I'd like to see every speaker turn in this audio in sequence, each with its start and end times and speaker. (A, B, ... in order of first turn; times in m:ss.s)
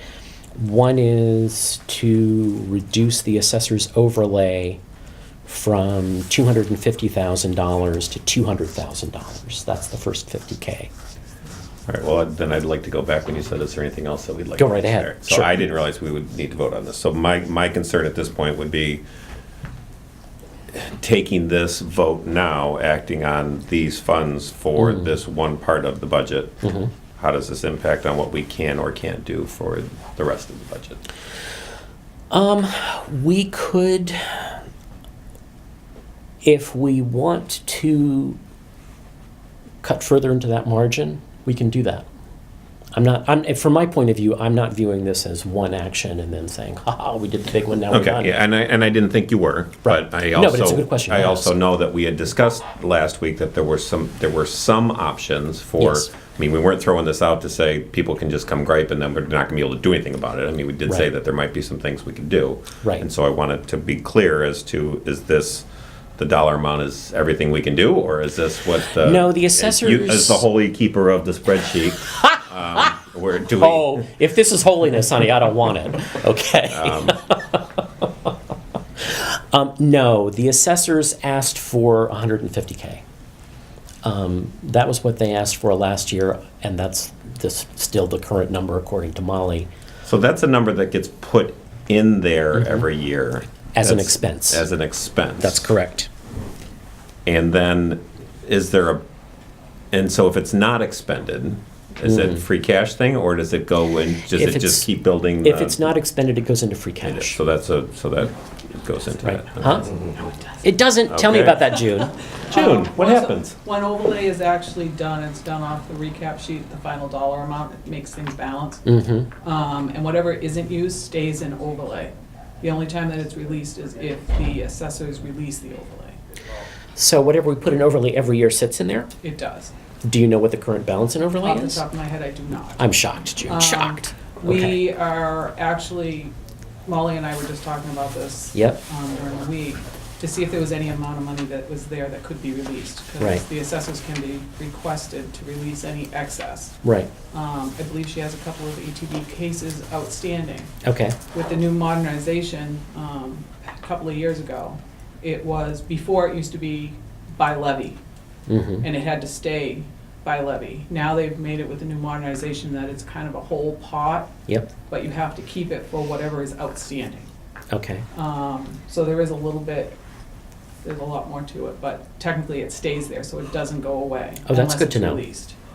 0:00.6-0:04.8 A
0:05.4-0:10.9 A
0:11.9-0:19.0 B
0:14.6-0:15.6 A
0:20.7-0:31.0 B
0:24.8-0:25.1 A
0:26.6-0:26.9 A
0:32.3-0:34.6 A
0:36.4-0:38.4 A
0:39.8-0:42.1 A
0:43.0-0:48.4 A
0:47.9-1:14.0 B
0:49.9-0:51.5 A
0:55.8-0:56.1 A
1:08.9-1:10.4 A
1:12.1-1:12.9 A
1:13.5-1:18.3 A
1:16.7-1:17.2 B
1:19.0-1:23.0 A
1:24.0-1:29.7 A
1:30.0-1:35.7 B
1:33.8-1:34.6 A
1:35.4-1:36.1 A
1:37.3-1:39.0 B
1:39.9-1:45.8 B
1:42.0-1:42.4 A
1:44.3-1:44.9 A
1:45.4-1:47.4 A
1:47.0-1:50.0 B
1:49.2-1:49.9 A
1:49.9-1:50.5 C
1:50.6-1:52.2 A
1:51.1-1:51.7 B
1:52.5-1:58.9 C
1:52.5-1:53.6 B
1:58.8-1:59.3 A
1:59.4-2:06.2 C
2:07.0-2:09.1 A
2:09.2-2:09.7 C
2:10.0-2:11.8 A
2:11.4-2:12.8 C
2:12.8-2:14.8 A
2:13.5-2:26.8 C
2:18.5-2:18.8 A
2:26.8-2:27.1 A
2:27.3-2:30.7 C
2:30.8-2:31.2 A
2:31.3-2:38.0 C
2:38.5-2:38.9 A
2:38.8-2:44.4 C
2:44.9-2:47.3 C
2:47.7-2:48.0 A
2:48.1-2:50.0 C
2:50.8-2:55.6 C
2:54.5-2:55.2 A